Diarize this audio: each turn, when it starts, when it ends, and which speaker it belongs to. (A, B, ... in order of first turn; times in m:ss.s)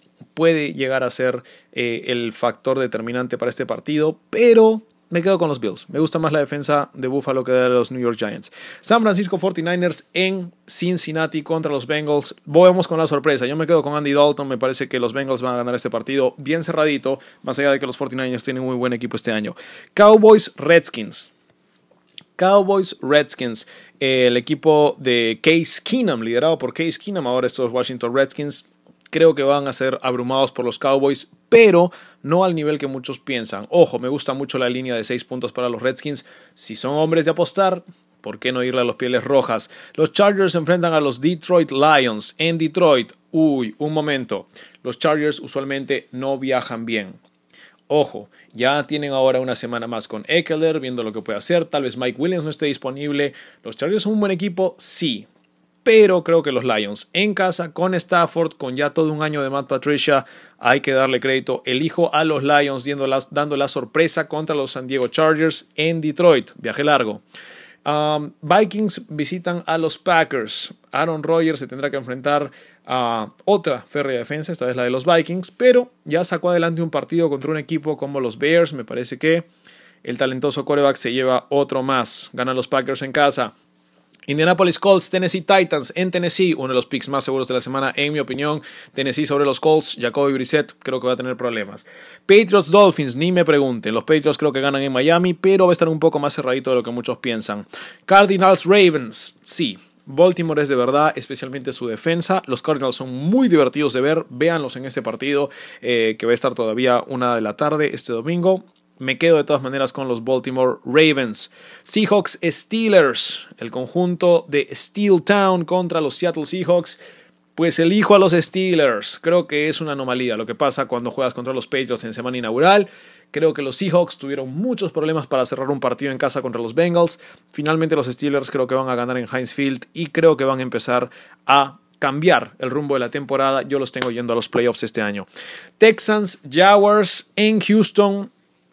0:00.4-0:21.3 A
0:22.4-0:47.2 A
0:47.9-0:55.3 A
0:55.8-1:07.2 A
1:07.8-1:19.5 A
1:20.0-1:23.5 A
1:24.3-1:57.0 A
1:57.6-2:15.3 A
2:15.8-2:18.3 A